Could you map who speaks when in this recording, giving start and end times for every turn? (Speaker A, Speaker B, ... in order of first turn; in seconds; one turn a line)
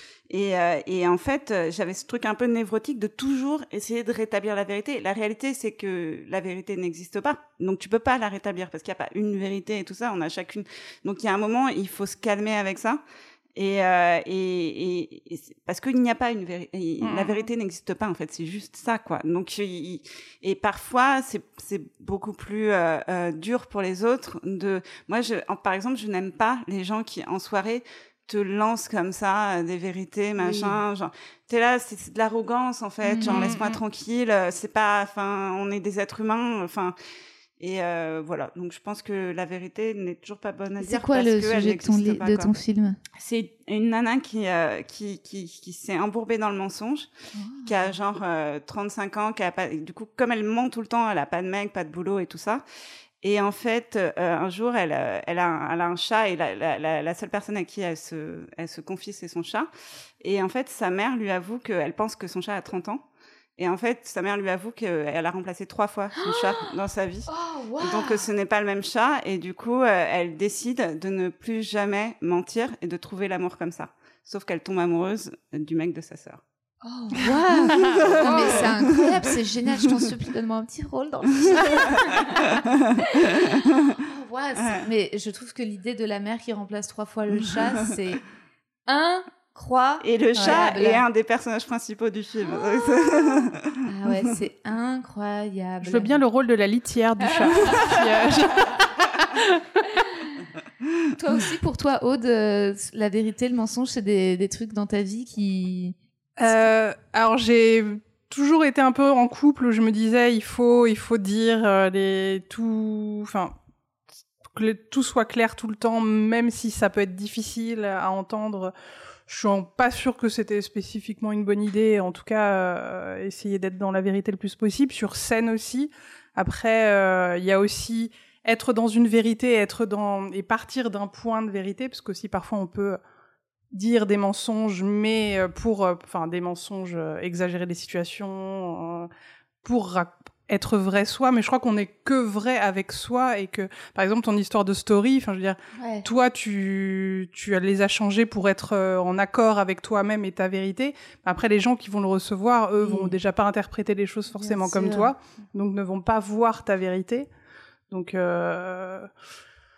Speaker A: 0.3-13.0
Speaker A: 13.5-36.9
Speaker B: 17.0-17.5
Speaker C: 30.4-30.7
Speaker C: 33.0-33.5
Speaker B: 33.2-33.8
Speaker A: 37.6-42.5
Speaker C: 40.8-43.0
Speaker A: 43.1-47.1
Speaker C: 47.3-47.7
Speaker A: 47.6-52.6
Speaker A: 53.2-59.7
Speaker A: 60.2-63.0
Speaker A: 63.6-76.4
Speaker C: 66.2-66.7
Speaker C: 67.3-68.3
Speaker C: 76.8-88.2
Speaker A: 77.8-78.8
Speaker B: 77.8-78.6
Speaker A: 81.5-83.9
Speaker A: 84.6-84.8
Speaker C: 88.9-91.0
Speaker A: 90.0-93.7
Speaker B: 90.3-90.6
Speaker C: 93.8-96.2
Speaker B: 95.8-99.6
Speaker C: 97.3-97.9
Speaker C: 99.9-100.3
Speaker C: 101.2-106.0
Speaker B: 106.4-113.5
Speaker B: 114.5-118.7
Speaker B: 119.3-133.0
Speaker B: 133.7-139.1
Speaker B: 139.6-157.3
Speaker C: 145.8-146.1
Speaker C: 152.8-153.2
Speaker C: 154.3-155.1
Speaker B: 157.9-159.1